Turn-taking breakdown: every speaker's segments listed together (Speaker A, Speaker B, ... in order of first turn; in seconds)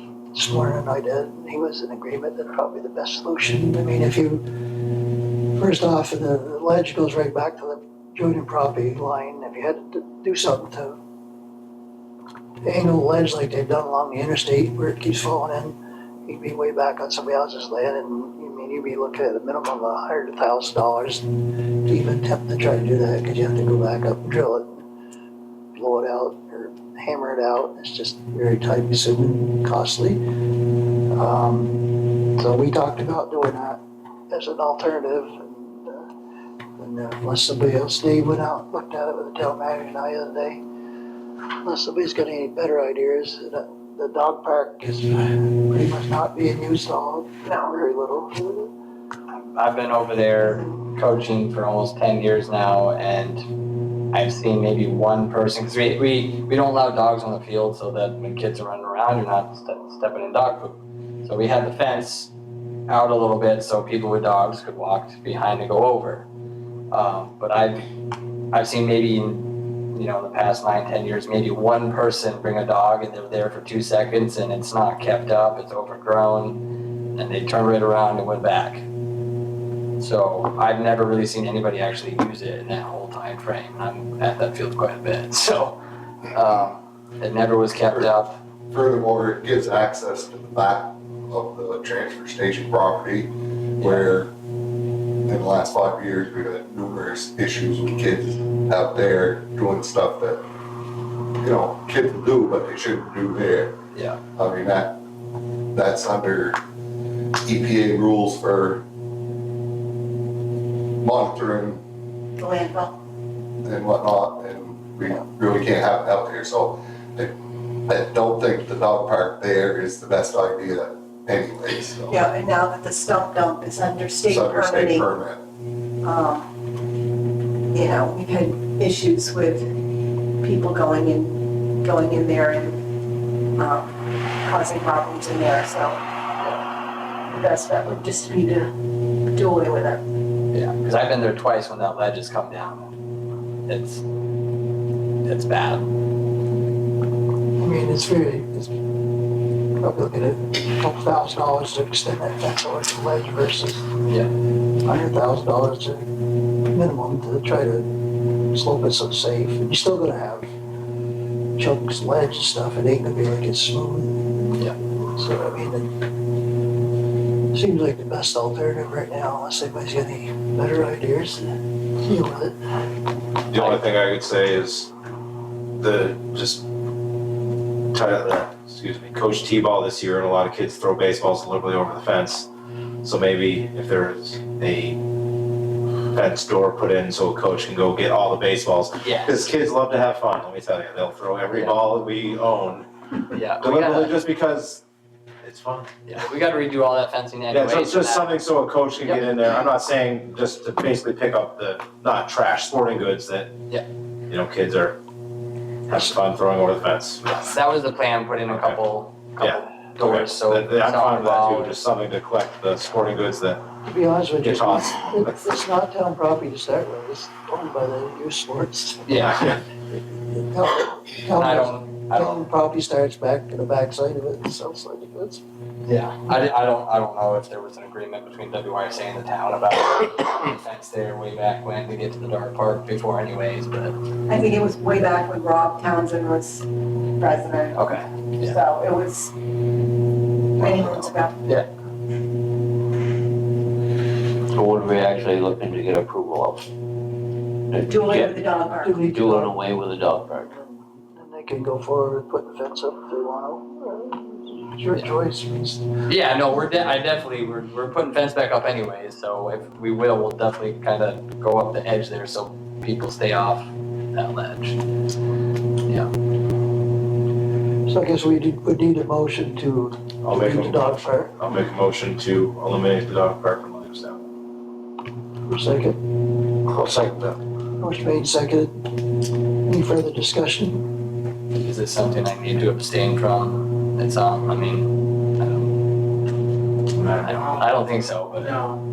Speaker A: 0.3-4.5, 5.5-11.0, 12.6-21.3, 21.8-24.9, 25.7-30.2, 31.1-36.1, 36.8-40.6, 41.6-48.7, 147.6-148.7, 149.8-153.9, 154.8-160.5, 161.6-165.9, 167.5-172.6, 213.8-219.6, 220.1-225.4, 248.8-249.6, 250.5-255.9, 267.8-271.4, 275.5-276.0, 277.8-278.9, 279.6-280.9
Speaker B: 47.4-47.7, 112.4-112.9, 122.1-125.1, 126.0-126.5, 127.7-129.8, 130.4-132.8, 133.6-136.0, 137.3-138.7, 139.3-140.0, 234.3-236.6, 237.2-239.3, 240.6-241.3, 247.8-249.1
Speaker C: 49.4-53.4, 54.1-62.3, 62.9-66.3, 66.9-67.9, 68.5-76.6, 77.1-78.8, 80.0-88.4, 93.8-94.1, 103.9-104.2, 140.5-142.9, 143.7-144.0, 145.2-145.8, 154.1-154.3, 189.0-189.4, 191.5-191.8, 193.3-194.2, 196.1-198.4, 207.2-211.8, 219.1-219.4, 221.3-222.4, 225.8-233.9, 237.7-238.6, 240.6-241.7, 256.1-264.8, 281.5-285.8, 286.9-288.6
Speaker D: 88.7-94.3, 95.2-100.4, 101.4-103.8, 104.3-105.0, 105.7-106.6, 107.4-108.8, 111.0-111.8, 113.6-117.3, 117.9-122.2, 124.3-125.4
Speaker E: 173.5-174.9, 175.8-176.7, 177.9-182.5, 183.0-185.0, 186.1-192.9, 193.5-194.8, 195.4-195.9, 197.5-203.5, 204.3-205.0, 205.9-207.2, 208.5-208.8, 209.4-213.6, 214.4-215.6, 219.1-219.6, 270.2-274.2, 276.6-277.4
Speaker F: 244.5-246.7, 247.7-248.3, 249.1-250.5